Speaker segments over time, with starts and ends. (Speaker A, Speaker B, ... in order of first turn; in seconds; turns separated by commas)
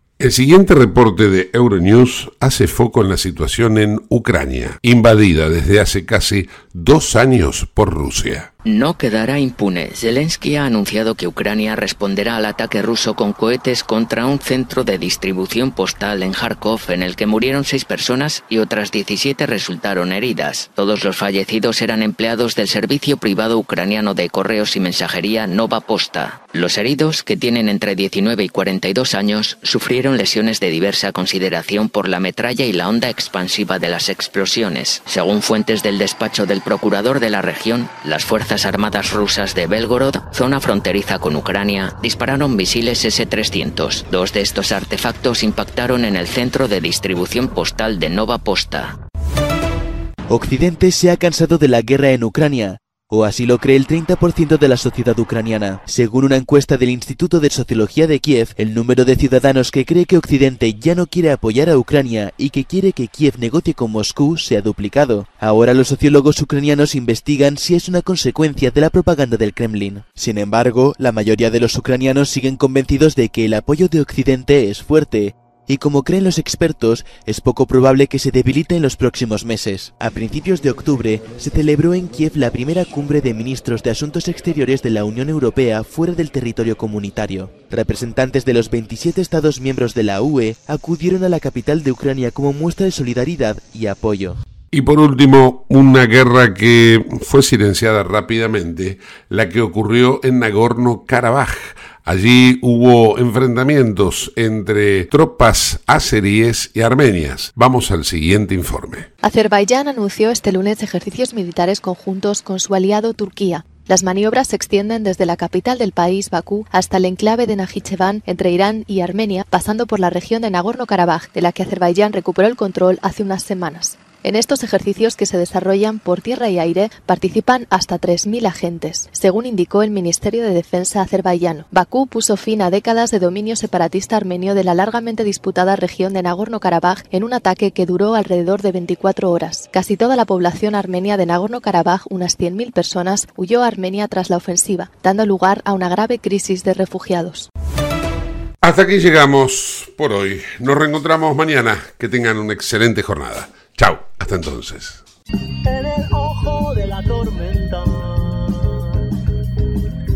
Speaker A: 0.2-8.5, Speaker B: 8.6-49.0, Speaker C: 50.3-94.4, Speaker A: 94.7-109.1, Speaker D: 109.2-147.5, Speaker A: 148.6-155.0, Speaker E: 155.6-159.0